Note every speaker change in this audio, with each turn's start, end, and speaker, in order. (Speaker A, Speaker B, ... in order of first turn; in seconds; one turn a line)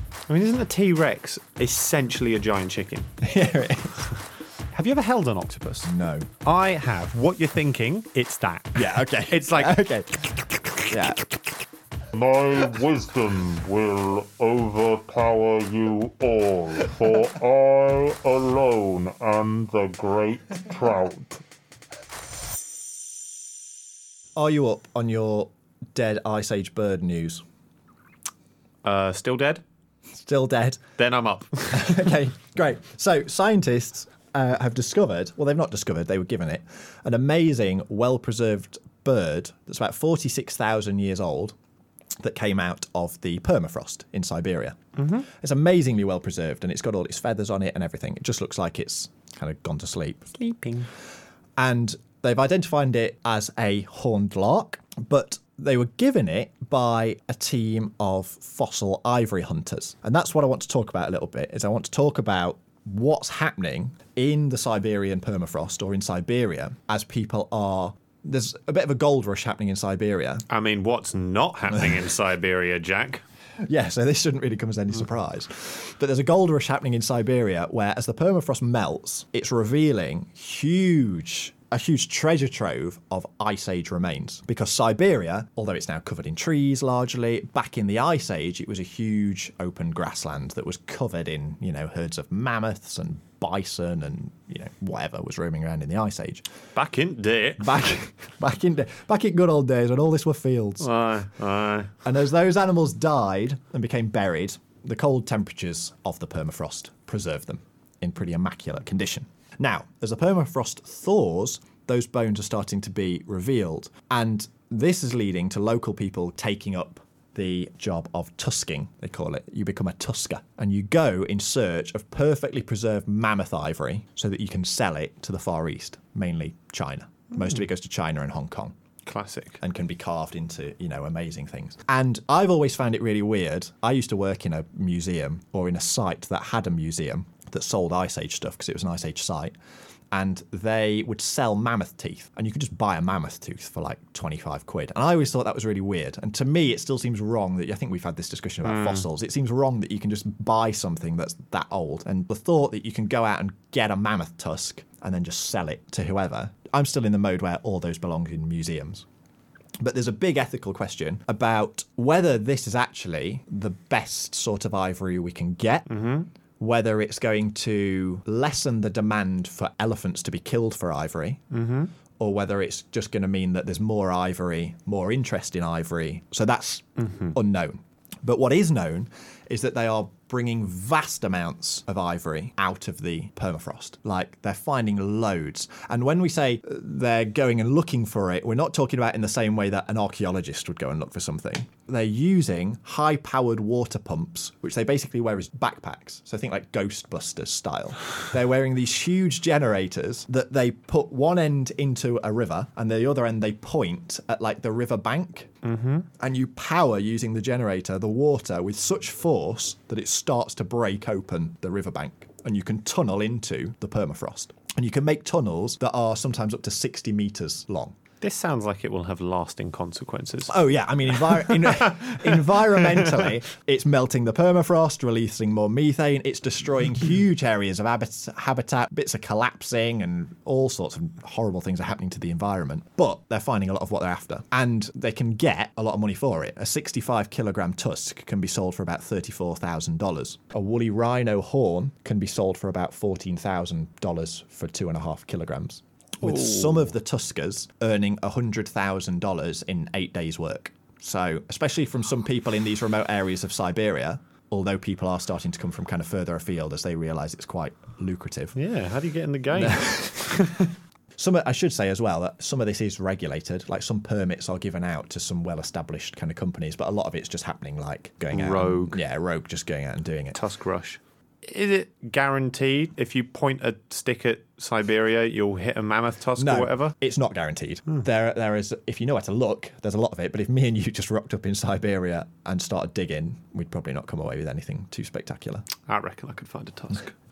Speaker A: 0.3-3.1
Speaker B: 3.2-4.0
Speaker A: 4.7-5.9
Speaker B: 5.8-6.3
Speaker A: 6.4-9.8
Speaker B: 8.7-11.3
Speaker C: 12.1-21.4
Speaker B: 24.4-27.4
Speaker A: 28.8-29.6
Speaker B: 30.2-30.8
Speaker A: 31.0-32.1
Speaker B: 31.7-41.5
Speaker B: 42.2-50.3
Speaker A: 45.0-45.2
Speaker A: 50.3-50.9
Speaker B: 51.6-70.4
Speaker A: 70.5-73.2
Speaker B: 73.6-96.4
Speaker A: 96.7-97.7
Speaker B: 97.6-100.9
Speaker A: 100.8-101.9
Speaker B: 102.0-128.7
Speaker A: 129.0-129.6
Speaker B: 129.6-139.5
Speaker B: 140.1-159.0
Speaker A: 148.6-149.1
Speaker B: 159.8-165.9
Speaker A: 165.9-166.3
Speaker B: 166.6-171.4
Speaker A: 171.5-171.9
Speaker B: 172.2-205.5
Speaker A: 177.0-177.3
Speaker A: 205.6-206.1
Speaker B: 206.2-217.9
Speaker A: 218.2-220.5
Speaker B: 220.5-258.5
Speaker A: 221.2-223.2
Speaker A: 246.2-246.9
Speaker A: 258.6-260.7
Speaker B: 259.5-260.5
Speaker B: 261.1-270.4
Speaker A: 268.3-269.0
Speaker A: 270.3-276.9
Speaker B: 276.4-285.7
Speaker A: 285.9-287.1